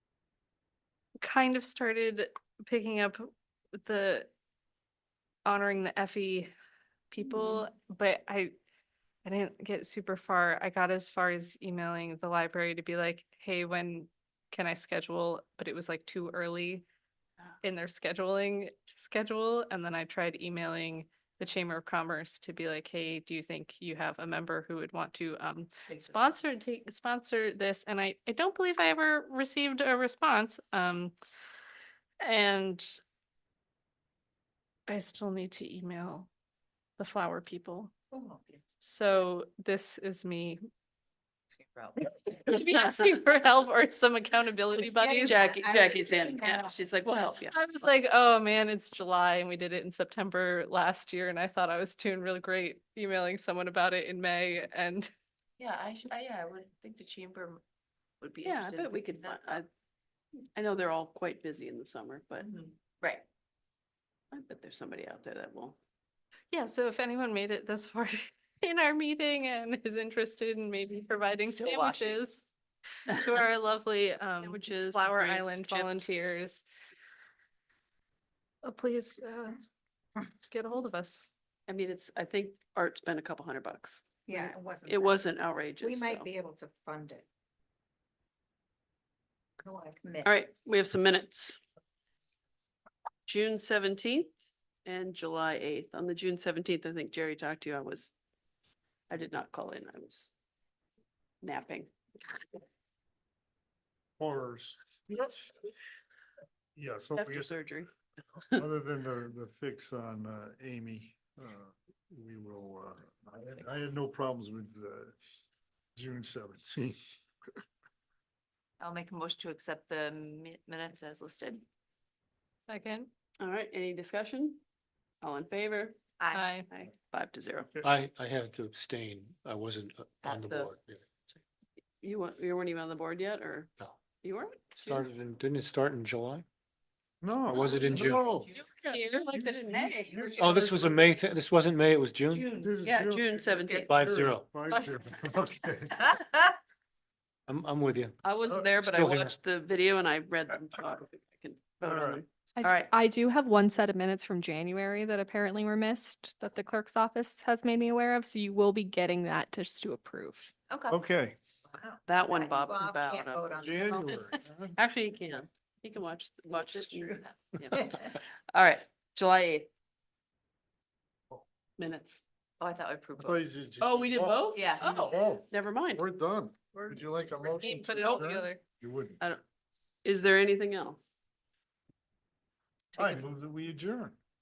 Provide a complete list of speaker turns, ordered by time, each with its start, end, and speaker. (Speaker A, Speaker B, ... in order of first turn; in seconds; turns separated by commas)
Speaker A: 1.2-4.3, Speaker A: 5.5-6.5, Speaker A: 7.1-8.5, Speaker A: 9.2-16.9, Speaker A: 17.6-31.1, Speaker B: 25.9-26.4, Speaker A: 32.2-33.0, Speaker A: 34.9-36.3, Speaker A: 37.0-37.9, Speaker C: 38.1-38.5, Speaker A: 38.8-40.6, Speaker B: 41.5-42.1, Speaker A: 42.3-45.5, Speaker D: 42.5-42.9, Speaker C: 44.8-46.8, Speaker D: 45.2-47.6, Speaker A: 47.5-55.1, Speaker B: 55.6-57.6, Speaker B: 58.2-59.6, Speaker D: 58.4-59.7, Speaker D: 60.5-62.5, Speaker B: 62.4-63.2, Speaker D: 64.3-65.8, Speaker A: 66.5-72.5, Speaker B: 71.4-72.2, Speaker A: 73.1-76.6, Speaker D: 74.4-76.2, Speaker A: 78.6-79.6, Speaker A: 80.5-81.3, Speaker D: 81.7-86.3, Speaker C: 84.3-87.2, Speaker C: 89.6-90.3, Speaker D: 90.2-91.6, Speaker D: 93.3-98.1, Speaker D: 99.1-100.3, Speaker D: 101.4-101.9, Speaker E: 104.2-105.3, Speaker E: 106.8-107.5, Speaker D: 107.2-107.9, Speaker E: 108.6-115.2, Speaker E: 116.0-117.0, Speaker B: 118.8-121.6, Speaker A: 122.7-123.1, Speaker D: 123.4-124.6, Speaker D: 125.2-126.0, Speaker B: 126.2-126.5, Speaker A: 126.3-126.7, Speaker D: 126.7-127.8, Speaker F: 127.8-131.1, Speaker B: 130.2-130.7, Speaker D: 132.0-133.7, Speaker D: 134.2-135.1, Speaker F: 134.8-136.4, Speaker E: 137.2-138.5, Speaker F: 137.5-138.3, Speaker B: 137.9-138.6, Speaker D: 138.8-141.0, Speaker A: 138.9-139.2, Speaker E: 139.3-140.8, Speaker F: 140.4-142.5, Speaker B: 142.3-142.8, Speaker E: 142.5-146.1, Speaker D: 142.8-143.9, Speaker B: 143.5-143.9, Speaker F: 143.9-144.5, Speaker A: 144.7-145.3, Speaker B: 146.1-146.4, Speaker F: 147.5-148.2, Speaker D: 148.2-152.9, Speaker F: 148.7-149.4, Speaker E: 151.8-152.2, Speaker G: 152.6-160.5, Speaker B: 160.7-161.0, Speaker E: 160.9-161.4, Speaker B: 161.7-163.3, Speaker D: 162.1-169.7, Speaker C: 162.7-164.2, Speaker E: 163.5-164.8, Speaker B: 166.5-167.6, Speaker C: 167.7-168.1, Speaker D: 171.8-172.2, Speaker B: 172.6-173.4, Speaker E: 173.2-179.2, Speaker D: 173.8-176.1, Speaker B: 174.5-175.3, Speaker A: 177.5-178.6, Speaker D: 180.0-181.2, Speaker E: 182.9-184.2